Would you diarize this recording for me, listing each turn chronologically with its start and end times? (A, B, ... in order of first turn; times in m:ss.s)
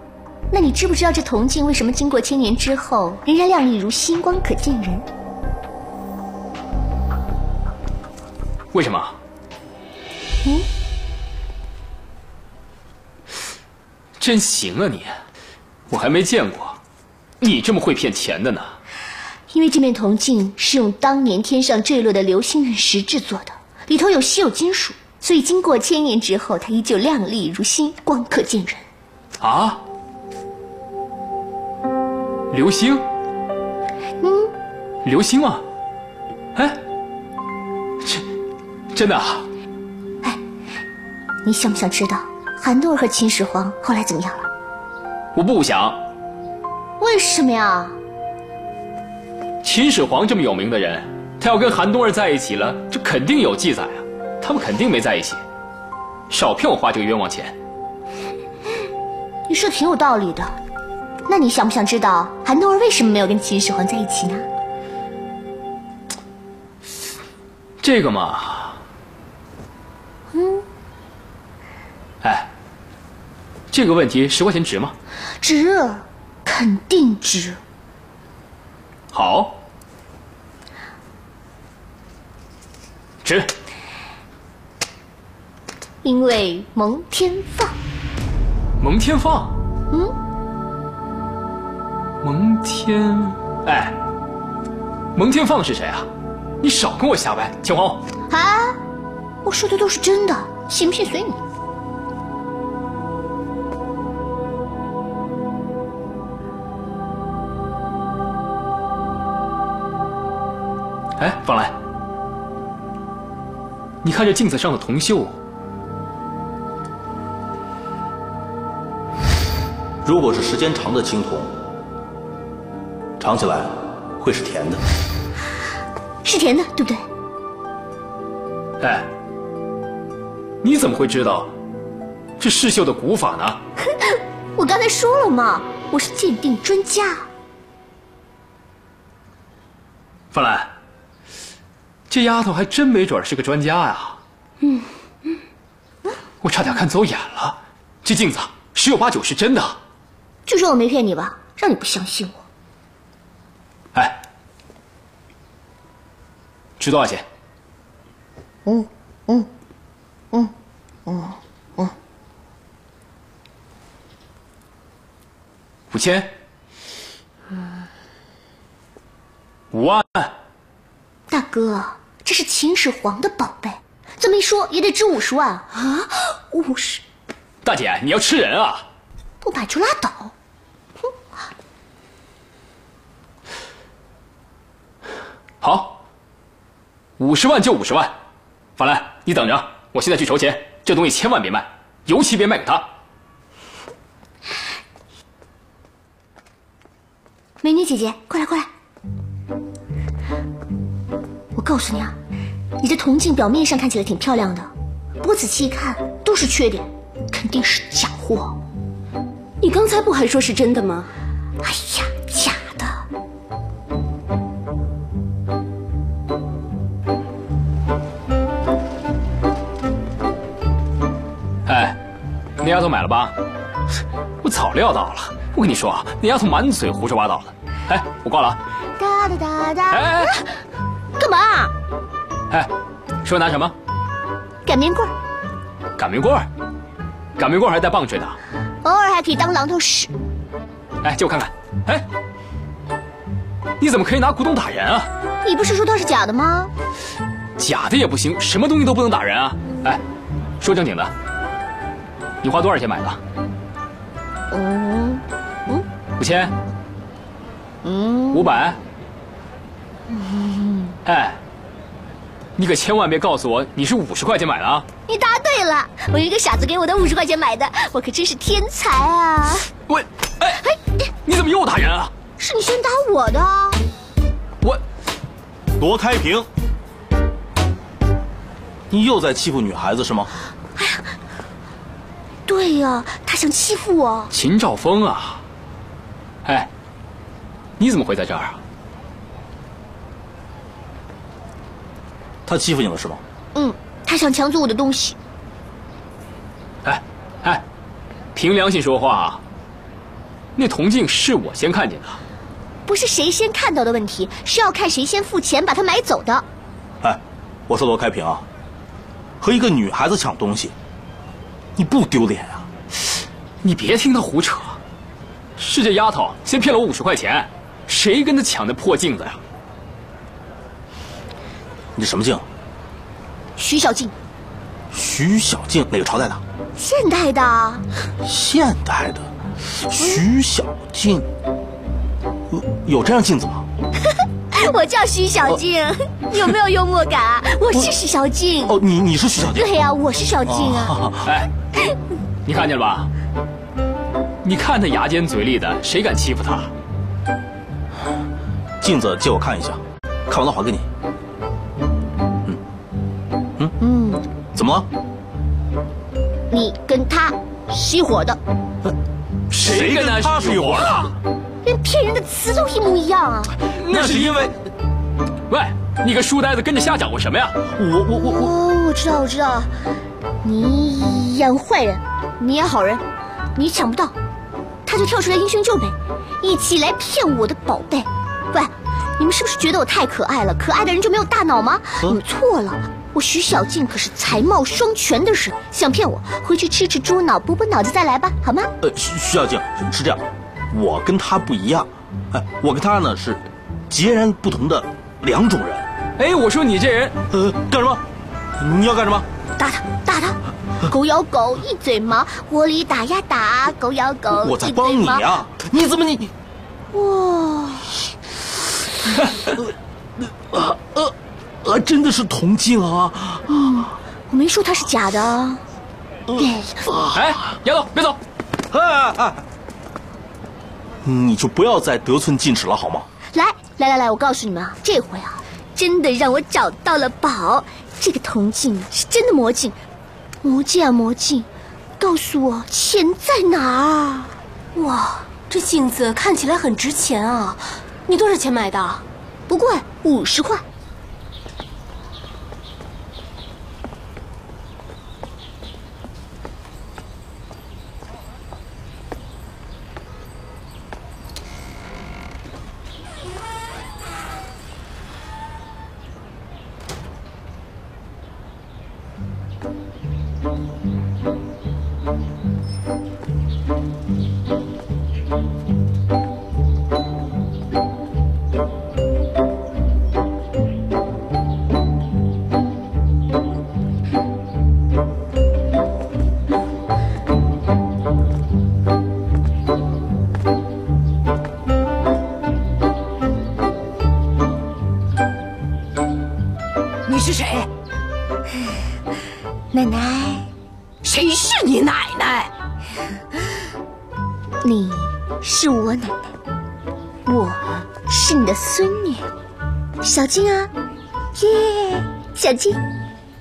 0:00.5-0:05.0 A
0:08.7-0:09.2 B
0:14.2-0:15.2 B
0:15.9-0:16.8 B
0:17.4-0:18.8 B
0:19.5-0:28.8 A
0:29.4-0:29.8 B
0:32.5-0:33.0 B
0:34.2-0:34.5 A
0:35.0-0:35.6 B
0:36.5-0:36.8 B
0:38.0-0:38.3 B
0:38.9-0:39.5 B
0:41.4-0:44.5 A
0:45.3-0:46.0 B
0:47.0-0:48.0 A
0:49.6-0:55.4 B
0:56.3-0:57.6 B
0:59.5-1:00.5 A
1:01.3-1:04.4 A
1:07.8-1:08.8 B
1:10.3-1:10.6 A
1:12.2-1:12.5 B
1:13.7-1:15.0 B
1:15.4-1:17.6 A
1:19.1-1:19.6 B
1:23.2-1:23.5 B
1:26.0-1:27.7 A
1:28.8-1:29.6 B
1:32.2-1:34.0 B
1:35.1-1:36.1 B
1:36.6-1:38.0 B
1:38.3-1:38.8 A
1:39.4-1:41.4 A
1:51.2-1:51.8 B
1:54.0-1:55.4 B
2:00.0-2:01.5 C
2:03.2-2:04.8 C
2:06.2-2:07.0 A
2:08.8-2:09.1 B
2:10.6-2:11.5 B
2:12.4-2:13.6 B
2:13.8-2:17.2 A
2:20.3-2:20.7 B
2:22.1-2:24.2 B
2:24.6-2:24.9 A
2:26.4-2:29.8 B
2:30.5-2:32.4 A
2:33.9-2:34.2 B
2:36.8-2:37.2 B
2:38.6-2:39.5 A
2:41.0-2:41.9 A
2:45.9-2:46.3 B
2:49.7-2:50.3 B
2:51.3-2:57.0 A
2:57.6-2:58.8 B
2:59.4-3:00.3 A
3:05.6-3:06.0 B
3:07.2-3:08.1 B
3:08.8-3:12.9 B
3:17.6-3:18.7 A
3:21.6-3:22.2 A
3:22.8-3:24.7 A
3:25.2-3:28.6 A
3:30.3-3:30.7 A
3:31.6-3:33.0 A
3:41.6-3:42.0 B
3:42.6-3:43.3 B
3:44.4-3:48.6 B
3:49.0-3:50.5 A
3:49.9-3:50.3 B
3:51.2-3:51.7 A
3:53.2-3:53.7 B
3:54.6-3:55.1 A
3:56.0-3:56.5 B
3:57.4-3:58.4 B
3:58.8-4:00.1 A
4:01.0-4:02.0 B
4:03.8-4:05.1 B
4:05.4-4:06.7 A
4:07.6-4:10.0 B
4:10.6-4:11.1 B
4:12.4-4:13.2 B
4:14.5-4:15.8 A
4:16.2-4:16.5 B
4:17.8-4:18.5 A
4:18.3-4:18.8 B
4:20.1-4:20.9 A
4:21.0-4:21.4 B
4:22.6-4:24.8 B
4:25.1-4:29.7 A
4:29.9-4:30.6 B
4:31.2-4:32.1 B
4:32.4-4:33.8 A
4:35.8-4:36.5 C
4:38.9-4:40.3 C
4:40.8-4:41.0 A
4:42.5-4:44.3 A
4:44.3-4:45.4 B
4:46.4-4:46.7 B
4:47.8-4:48.6 B
4:52.4-4:53.2 C
4:53.5-4:55.2 A
4:56.8-4:57.6 B
4:58.3-4:59.4 B
5:00.6-5:02.2 B
5:02.9-5:06.4 A
5:07.0-5:08.4 C
5:09.4-5:10.7 C
5:11.8-5:12.7 C
5:13.6-5:14.8 B
5:15.6-5:19.4 B
5:22.0-5:22.4 C
5:23.6-5:24.1 A
5:24.9-5:26.4 C
5:26.8-5:27.8 A
5:28.2-5:31.3 C
5:32.5-5:33.6 C
5:34.5-5:38.8 A
5:38.7-5:39.7 C
5:39.5-5:41.0 A
5:40.4-5:41.2 C
5:41.2-5:41.5 B
5:42.4-5:43.1 B
5:44.4-5:46.7 B
5:48.8-5:50.9 C
5:53.8-5:54.2 A
5:54.5-5:54.9 C
5:56.5-5:58.4 A
5:59.5-6:01.1 C
5:59.6-6:01.1 B
6:01.6-6:03.5 A
6:03.8-6:04.5 B
6:03.8-6:04.5 C
6:05.5-6:07.6 B
6:07.7-6:08.5 C
6:08.2-6:09.7 A
6:10.4-6:13.0 A
6:13.6-6:14.1 A
6:14.8-6:28.7 A
6:28.8-6:35.9 C
6:36.2-6:37.2 B
6:37.3-6:38.0 C
6:38.6-6:39.3 C
6:39.6-6:45.3 A
6:44.4-6:46.3 C
6:46.9-6:47.9 A
6:49.4-6:53.9 C
6:54.3-6:55.6 A
6:56.3-6:57.3 C
6:56.4-6:56.8 A
6:57.1-6:58.2 B
6:58.7-6:59.4 C
7:01.0-7:03.1 C
7:03.3-7:09.8 A
7:10.4-7:11.5 A
7:12.0-7:15.3 A
7:15.5-7:19.0 D
7:19.5-7:20.6 A
8:07.0-8:07.7 D
8:09.7-8:10.5 A
8:11.0-8:12.5 D
8:14.6-8:16.3 A
8:17.2-8:19.2 A
8:20.0-8:20.7 A
8:21.4-8:22.8 A